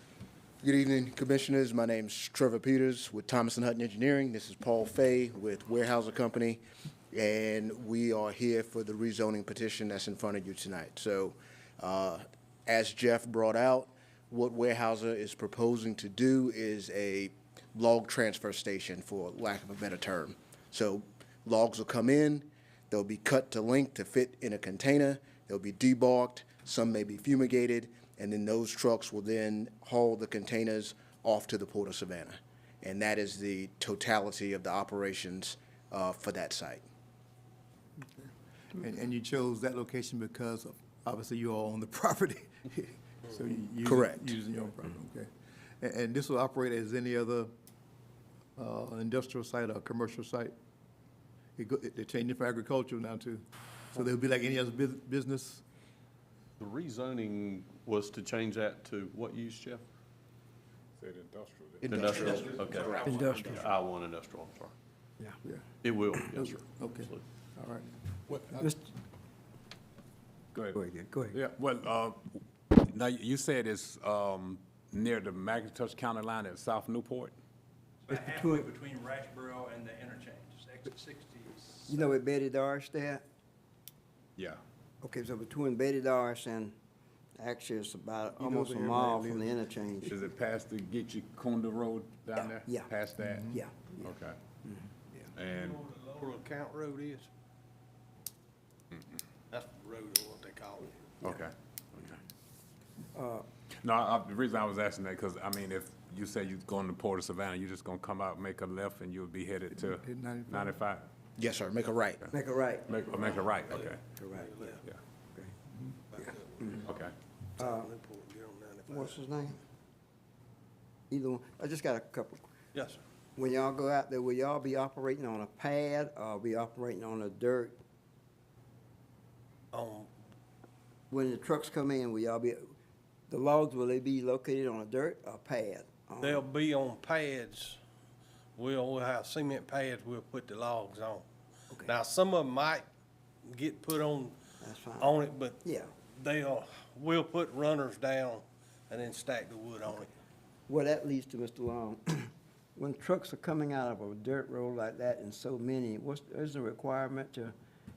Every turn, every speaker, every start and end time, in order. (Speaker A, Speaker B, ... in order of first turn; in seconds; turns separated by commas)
Speaker A: 0.6-36.8, Speaker B: 38.2-45.3, Speaker A: 43.9-44.4, Speaker B: 45.8-47.5, Speaker B: 48.6-50.5, Speaker B: 51.6-55.6, Speaker C: 56.6-59.8, Speaker D: 61.0-62.0, Speaker C: 61.8-64.7, Speaker A: 61.9-63.7, Speaker E: 63.0-63.6, Speaker E: 65.2-65.6, Speaker C: 65.8-66.8, Speaker B: 66.3-68.7, Speaker E: 68.5-68.9, Speaker E: 70.7-71.4, Speaker D: 71.3-77.4, Speaker F: 78.1-82.1, Speaker E: 78.1-78.7, Speaker E: 81.9-83.2, Speaker E: 85.0-86.7, Speaker E: 87.4-90.2, Speaker B: 88.4-89.6, Speaker D: 90.0-94.4, Speaker E: 92.3-92.9, Speaker B: 93.2-93.5, Speaker E: 93.5-95.3, Speaker D: 95.3-95.8, Speaker F: 95.5-97.3, Speaker F: 99.5-101.0, Speaker D: 101.2-102.2, Speaker E: 103.1-103.5, Speaker D: 103.8-111.0, Speaker B: 109.7-110.8, Speaker A: 111.4-112.2, Speaker E: 112.3-113.4, Speaker D: 112.9-114.0, Speaker F: 113.1-114.8, Speaker E: 114.2-114.7, Speaker F: 116.1-116.9, Speaker E: 116.2-116.8, Speaker D: 116.8-117.1, Speaker F: 117.6-119.2, Speaker E: 117.6-117.9, Speaker E: 118.9-119.6, Speaker E: 121.1-122.5, Speaker F: 122.7-123.0, Speaker E: 123.4-127.8, Speaker F: 129.7-130.1, Speaker E: 131.1-132.7, Speaker E: 133.3-136.5, Speaker F: 136.2-137.8, Speaker F: 138.6-141.2, Speaker E: 141.7-142.0, Speaker F: 141.8-142.9, Speaker F: 143.5-144.4, Speaker E: 144.6-145.9, Speaker F: 145.0-145.6, Speaker F: 146.1-150.1, Speaker E: 150.7-157.5